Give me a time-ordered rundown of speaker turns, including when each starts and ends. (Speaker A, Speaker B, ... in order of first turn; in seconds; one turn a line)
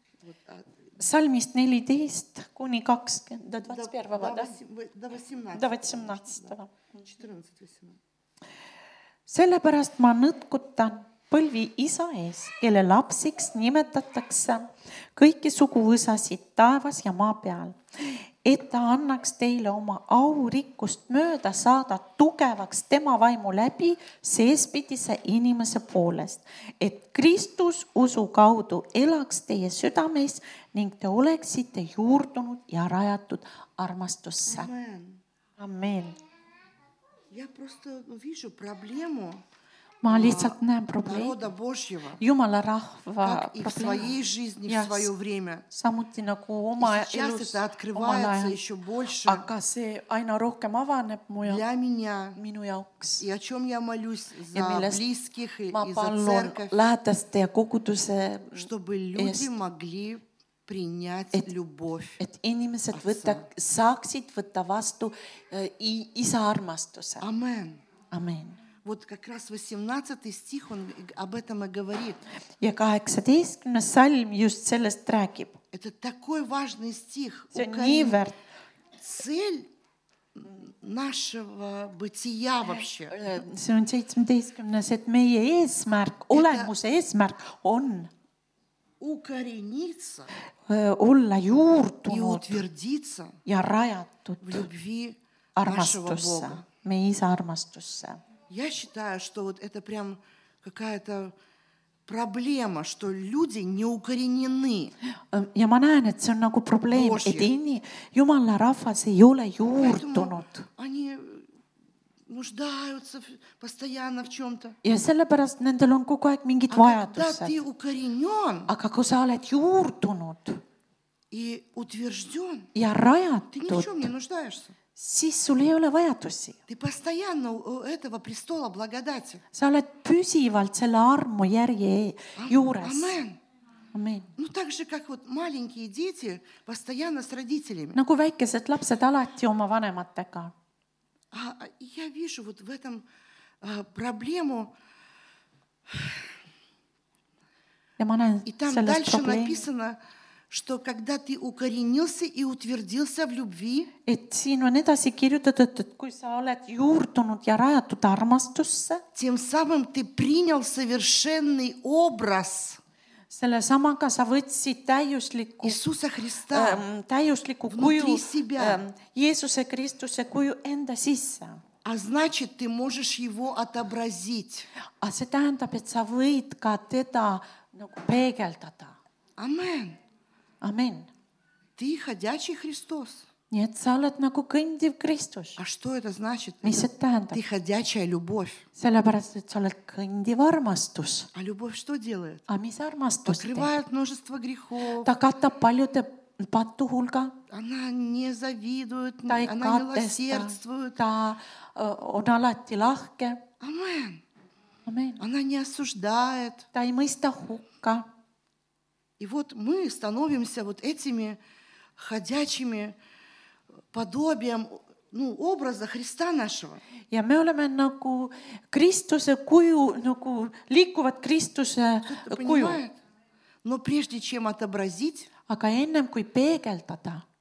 Speaker A: 0.2-0.7
Speaker B: 1.0-4.5
Speaker A: 3.7-8.0
Speaker B: 5.5-6.8
Speaker B: 9.3-34.7
Speaker A: 34.5-35.2
Speaker B: 35.6-36.2
Speaker A: 37.3-39.4
Speaker B: 40.0-41.4
Speaker A: 40.1-42.2
Speaker B: 42.2-45.1
Speaker A: 43.2-45.6
Speaker B: 45.7-48.6
Speaker A: 46.8-49.5
Speaker B: 49.2-51.6
Speaker A: 51.4-52.4
Speaker B: 52.4-53.2
Speaker A: 53.2-56.8
Speaker B: 54.5-55.0
Speaker B: 55.7-59.5
Speaker A: 58.5-62.2
Speaker B: 62.2-67.2
Speaker A: 62.9-63.5
Speaker A: 67.2-67.8
Speaker B: 68.1-68.6
Speaker A: 68.8-72.2
Speaker B: 72.6-75.6
Speaker A: 75.7-78.2
Speaker B: 77.5-78.3
Speaker A: 79.0-79.7
Speaker A: 80.4-83.2
Speaker B: 83.1-88.1
Speaker A: 86.3-86.7
Speaker A: 89.0-90.3
Speaker B: 90.7-92.6
Speaker A: 92.1-93.4
Speaker B: 93.5-94.7
Speaker A: 94.4-96.6
Speaker B: 95.6-98.2
Speaker A: 98.5-101.3
Speaker A: 102.1-104.9
Speaker B: 105.3-110.7
Speaker A: 106.9-107.5
Speaker A: 109.8-111.5
Speaker A: 112.3-114.8
Speaker B: 114.8-117.6
Speaker A: 116.7-118.7
Speaker B: 118.7-120.6
Speaker A: 121.3-122.7
Speaker B: 122.8-124.1
Speaker A: 123.5-124.8
Speaker B: 125.0-126.6
Speaker A: 126.7-129.4
Speaker B: 129.5-133.2
Speaker A: 132.4-133.4
Speaker B: 133.9-134.3
Speaker A: 134.4-138.0
Speaker B: 137.9-140.5
Speaker A: 141.3-143.0
Speaker A: 143.6-144.7
Speaker A: 145.9-146.2
Speaker B: 148.0-149.7
Speaker A: 148.5-150.0
Speaker A: 150.5-153.9
Speaker B: 154.1-159.0
Speaker A: 159.2-162.8
Speaker B: 163.3-165.8
Speaker A: 165.6-166.8
Speaker B: 166.5-171.6
Speaker A: 167.7-168.8
Speaker A: 171.8-174.7
Speaker B: 175.0-179.0
Speaker A: 179.4-180.0
Speaker B: 180.6-181.1
Speaker A: 181.8-183.3
Speaker B: 183.5-185.6
Speaker A: 185.6-188.6
Speaker B: 186.6-187.4
Speaker B: 188.8-191.3
Speaker A: 191.3-192.4
Speaker B: 192.5-193.7
Speaker A: 193.2-195.1
Speaker B: 195.0-197.4
Speaker A: 197.5-201.0
Speaker B: 199.3-203.4
Speaker A: 203.6-204.2
Speaker B: 204.9-205.2
Speaker A: 205.2-206.7
Speaker B: 206.7-208.1
Speaker A: 209.2-211.4
Speaker A: 212.0-212.9
Speaker A: 213.9-216.8
Speaker B: 217.1-222.8
Speaker A: 222.1-222.9
Speaker A: 223.6-225.3
Speaker B: 225.5-227.2